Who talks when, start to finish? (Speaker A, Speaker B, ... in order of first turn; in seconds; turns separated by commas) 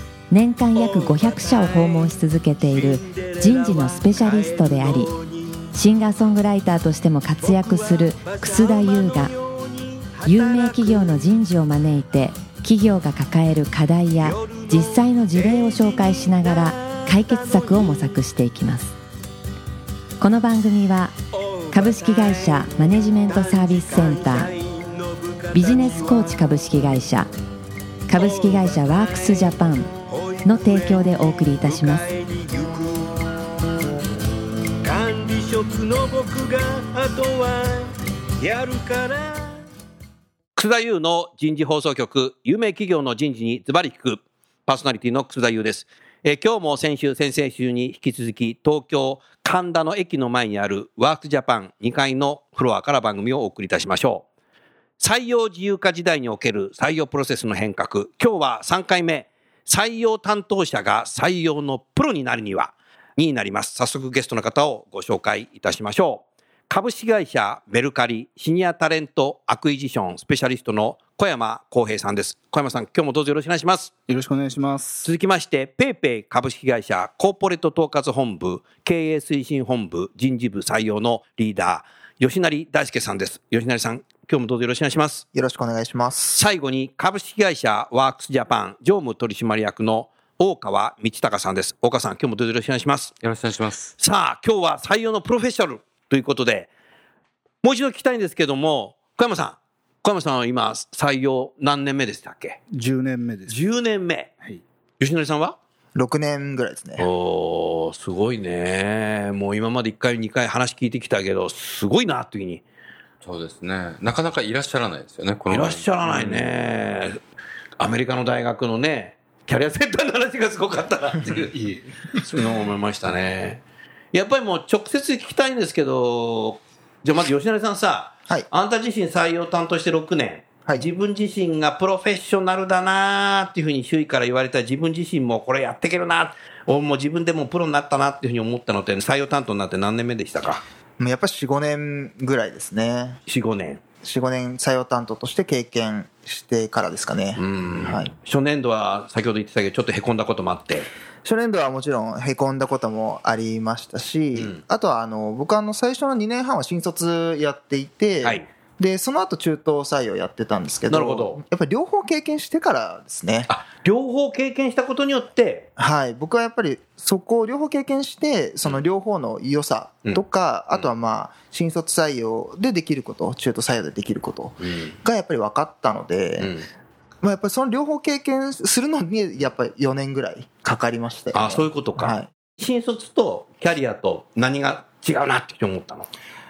Speaker A: 0.3-5.1, Speaker B: 0.7-5.7, Speaker A: 5.7-9.3, Speaker B: 7.4-11.2, Speaker A: 10.2-18.9, Speaker B: 14.2-18.2, Speaker A: 20.2-21.2, Speaker B: 21.4-26.4, Speaker A: 21.7-24.5, Speaker A: 25.5-27.3, Speaker A: 28.1-29.9, Speaker B: 28.1-33.1, Speaker A: 30.4-32.1, Speaker B: 34.9-37.9, Speaker B: 38.4-39.6, Speaker C: 40.5-54.2, Speaker C: 55.0-73.9, Speaker D: 74.1-75.1, Speaker C: 75.0-85.2, Speaker E: 85.3-86.4, Speaker C: 86.3-93.2, Speaker F: 93.2-93.9, Speaker C: 94.0-96.7, Speaker C: 97.6-102.6, Speaker D: 102.7-103.6, Speaker C: 103.5-104.3, Speaker C: 105.0-105.6, Speaker E: 105.9-107.1, Speaker C: 107.0-112.6, Speaker F: 113.2-115.8, Speaker C: 115.5-117.2, Speaker C: 117.8-121.5, Speaker D: 121.3-122.4, Speaker C: 122.2-140.6, Speaker E: 141.0-143.2, Speaker C: 143.3-143.8, Speaker E: 144.0-148.1, Speaker C: 147.3-150.9, Speaker E: 151.2-163.5, Speaker C: 154.3-154.6, Speaker C: 160.9-161.4, Speaker C: 163.5-165.7, Speaker E: 165.8-176.5, Speaker C: 174.6-175.0, Speaker C: 176.4-176.7, Speaker E: 177.2-182.3, Speaker C: 181.3-186.1